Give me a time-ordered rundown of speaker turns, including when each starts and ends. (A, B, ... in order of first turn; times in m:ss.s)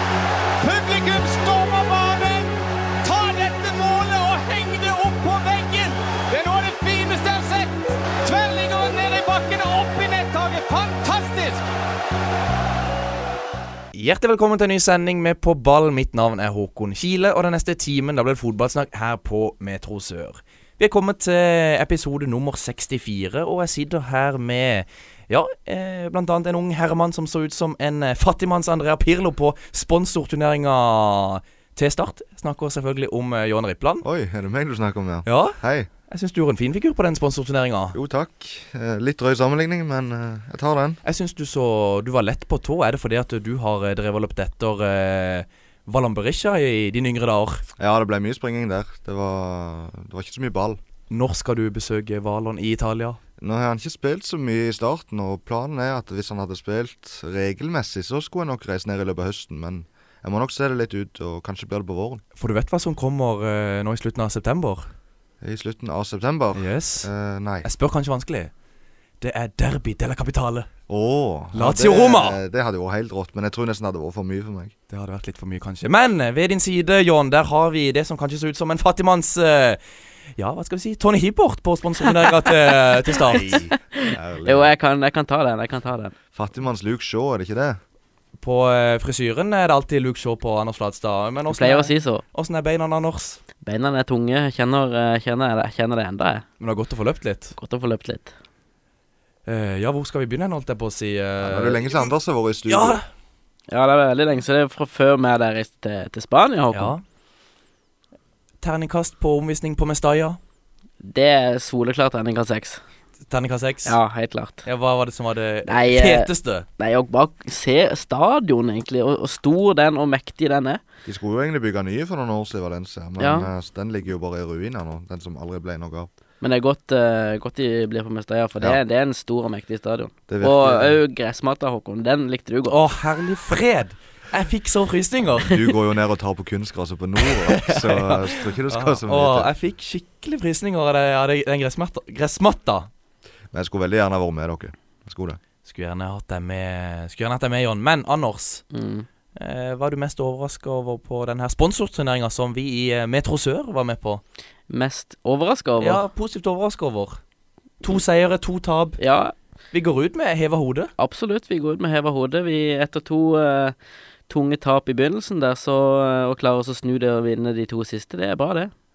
0:00.6-0:02.5 A
0:03.0-0:07.7 A
0:08.2-0:11.6 A
0:13.9-0:34.0 B
0:34.0-0:35.9 C
0:35.3-0:38.0 B
0:37.9-0:41.0 C
0:41.0-0:47.6 B
0:47.8-0:50.8 C
0:51.1-0:53.2 B
0:53.4-1:02.2 C
1:02.4-1:04.9 B
1:05.4-1:07.7 C
1:06.6-1:07.1 B
1:07.6-1:08.5 B
1:09.2-1:10.7 B
1:10.9-1:14.7 C
1:11.5-1:12.4 B
1:14.9-1:19.8 B
1:20.4-1:23.6 B
1:23.2-1:24.7 C
1:24.0-1:26.2 D
1:26.3-1:27.8 C
1:28.4-1:33.4 B
1:31.5-1:32.2 D
1:33.6-1:36.4 D
1:36.6-1:37.6 B
1:37.6-1:38.3 D
1:39.5-1:42.1 B
1:41.4-1:43.0 C
1:42.7-1:43.1 B
1:43.7-1:47.0 D
1:46.7-1:47.0 B
1:48.6-1:50.4 B
1:51.0-1:52.8 D
1:53.3-1:54.0 B
1:53.8-1:54.7 D
1:54.6-1:56.7 B
1:55.7-2:00.8 D
2:01.0-2:06.1 C
2:03.2-2:03.5 D
2:06.4-2:12.8 D
2:10.3-2:11.0 C
2:12.7-2:15.6 B
2:15.4-2:19.5 C
2:17.6-2:22.9 B
2:23.5-2:25.4 C
2:25.6-2:28.6 B
2:28.7-2:29.1 D
2:29.4-2:34.2 B
2:34.7-2:36.0 D
2:35.8-2:37.2 B
2:37.8-2:39.0 B
2:39.0-2:39.3 D
2:39.7-2:40.9 B
2:41.0-2:43.8 D
2:44.3-2:48.7 D